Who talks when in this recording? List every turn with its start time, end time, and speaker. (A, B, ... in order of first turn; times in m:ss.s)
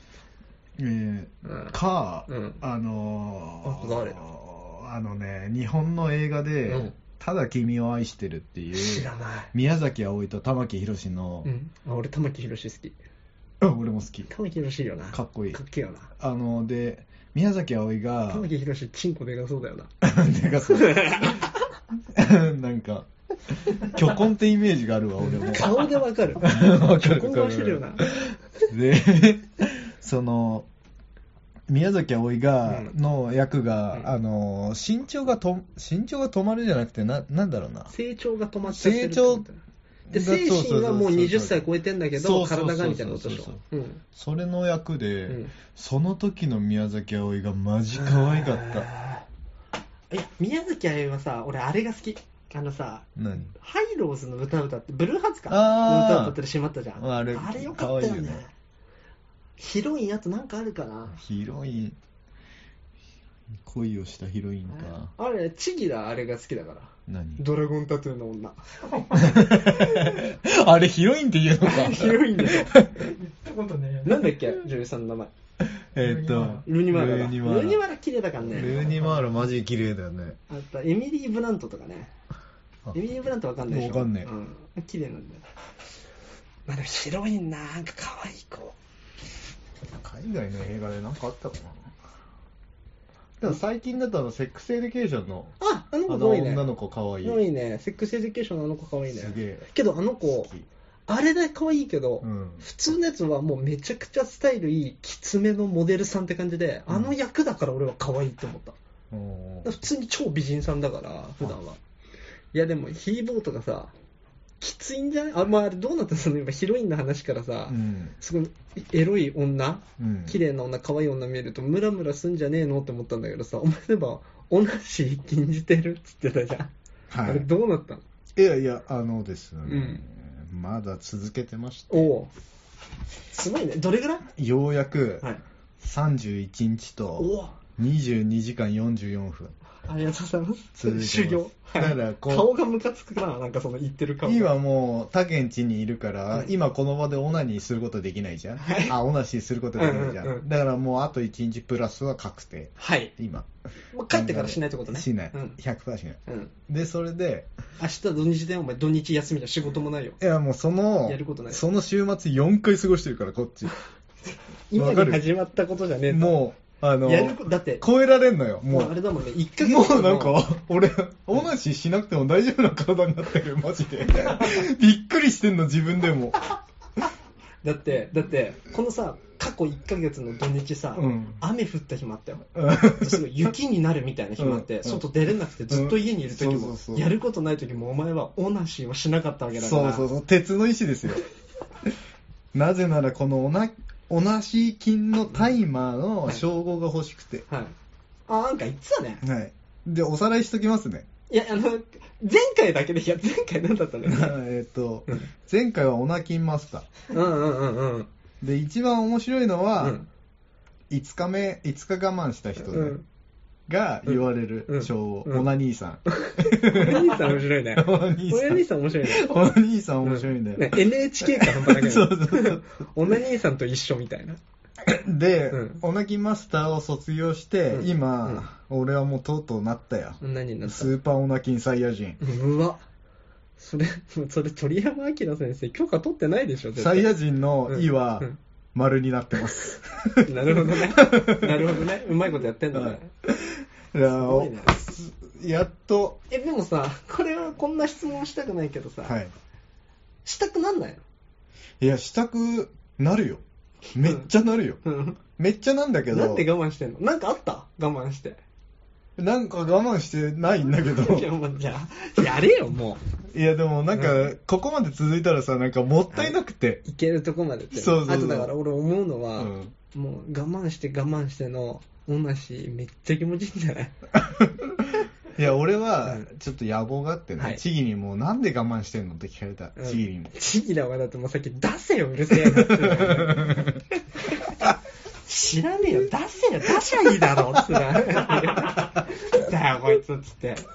0:00.8-0:11.5 A
0:01.4-0:01.7 B
0:02.3-0:02.6 B
0:03.6-0:04.2 B
0:06.7-0:06.9 B
0:08.7-0:09.5 B
0:11.4-0:13.0 B
0:13.6-0:14.3 A
0:14.3-0:16.1 B
0:15.1-0:15.6 A
0:16.1-0:18.5 A
0:18.3-0:19.9 B
0:20.0-0:21.5 A
0:20.7-0:21.7 B
0:22.1-0:30.7 A
0:25.2-0:28.1 B
0:31.7-0:37.9 A
0:37.9-0:39.6 B
0:38.6-0:39.4 A
0:40.1-0:48.9 A
0:40.1-0:44.0 B
0:45.3-0:45.5 B
0:48.0-0:49.2 B
0:50.1-0:58.5 B
0:53.2-0:53.5 A
0:55.5-0:56.4 A
0:57.0-0:58.4 A
0:59.6-1:01.2 B
1:01.1-1:02.0 A
1:03.6-1:05.1 A
1:04.7-1:08.6 B
1:07.1-1:07.4 A
1:09.1-1:13.1 A
1:09.4-1:10.2 B
1:11.6-1:12.7 B
1:12.9-1:14.2 C
1:14.0-1:15.3 B
1:15.6-1:17.8 A
1:16.0-1:16.6 C
1:16.6-1:19.1 B
1:18.5-1:20.4 A
1:20.5-1:22.1 B
1:22.9-1:25.4 B
1:23.7-1:24.3 A
1:26.6-1:28.8 B
1:29.9-1:31.9 A
1:33.4-1:35.5 A
1:35.6-1:36.6 B
1:36.0-1:37.4 A
1:37.2-1:40.5 B
1:39.1-1:39.7 A
1:40.3-1:40.7 A
1:41.1-1:48.8 B
1:42.2-1:42.6 A
1:49.1-1:49.7 A
1:49.6-1:51.8 B
1:52.5-1:53.9 B
1:54.6-2:06.7 B
1:57.7-1:58.1 A
2:00.0-2:00.4 A
2:07.1-2:07.5 A
2:07.2-2:08.0 B
2:08.4-2:12.1 A
2:09.6-2:10.0 B
2:11.9-2:12.3 B
2:13.3-2:14.3 B
2:14.3-2:15.3 A
2:15.8-2:19.5 A
2:17.2-2:17.5 B
2:19.8-2:24.5 B
2:20.7-2:22.5 A
2:24.2-2:33.5 A
2:28.6-2:29.0 B
2:29.8-2:30.4 B
2:32.8-2:33.1 B
2:33.9-2:35.6 B
2:34.1-2:37.5 A
2:36.3-2:36.5 B
2:37.8-2:40.2 B
2:40.2-2:43.7 A
2:41.0-2:41.6 B
2:44.7-2:46.4 B
2:44.7-2:45.2 A
2:46.1-2:49.0 A
2:47.0-2:47.8 B
2:48.7-2:50.4 B
2:49.6-2:56.5 A
2:57.6-3:10.1 B
3:00.9-3:01.4 A
3:02.5-3:03.2 A
3:04.4-3:05.1 A
3:05.7-3:07.1 A
3:09.6-3:11.2 A
3:12.5-3:17.4 A
3:17.5-3:17.7 B
3:18.3-3:19.2 B
3:19.2-3:21.1 A
3:21.3-3:24.3 B
3:24.0-3:26.9 A
3:27.1-3:28.1 B
3:28.4-3:30.0 A
3:29.8-3:30.1 B
3:30.9-3:33.0 A
3:32.7-3:33.0 B
3:33.7-3:42.6 A
3:34.7-3:35.4 B
3:36.1-3:39.3 B
3:40.0-3:44.4 B
3:44.8-3:52.2 A
3:45.5-3:45.8 B
3:47.7-3:48.5 B
3:50.2-3:50.9 B
3:52.2-3:52.8 B
3:53.6-3:57.1 B
3:56.8-4:01.9 A
3:57.7-3:58.4 B
4:00.2-4:03.1 B
4:02.7-4:06.2 A
4:04.0-4:04.8 B
4:06.3-4:09.2 B
4:09.0-4:09.3 A
4:10.2-4:11.0 B
4:11.8-4:13.4 A
4:13.9-4:16.5 A
4:14.0-4:14.3 B
4:14.8-4:15.2 B
4:16.1-4:18.4 B
4:19.2-4:21.3 A
4:20.7-4:23.0 B
4:23.3-4:26.8 A
4:23.9-4:24.2 B
4:26.1-4:33.9 B
4:27.7-4:28.5 A
4:29.4-4:29.7 A
4:34.1-4:40.3 A
4:39.8-4:43.7 B
4:42.3-4:43.8 A
4:45.2-4:50.6 B
4:47.3-4:48.9 A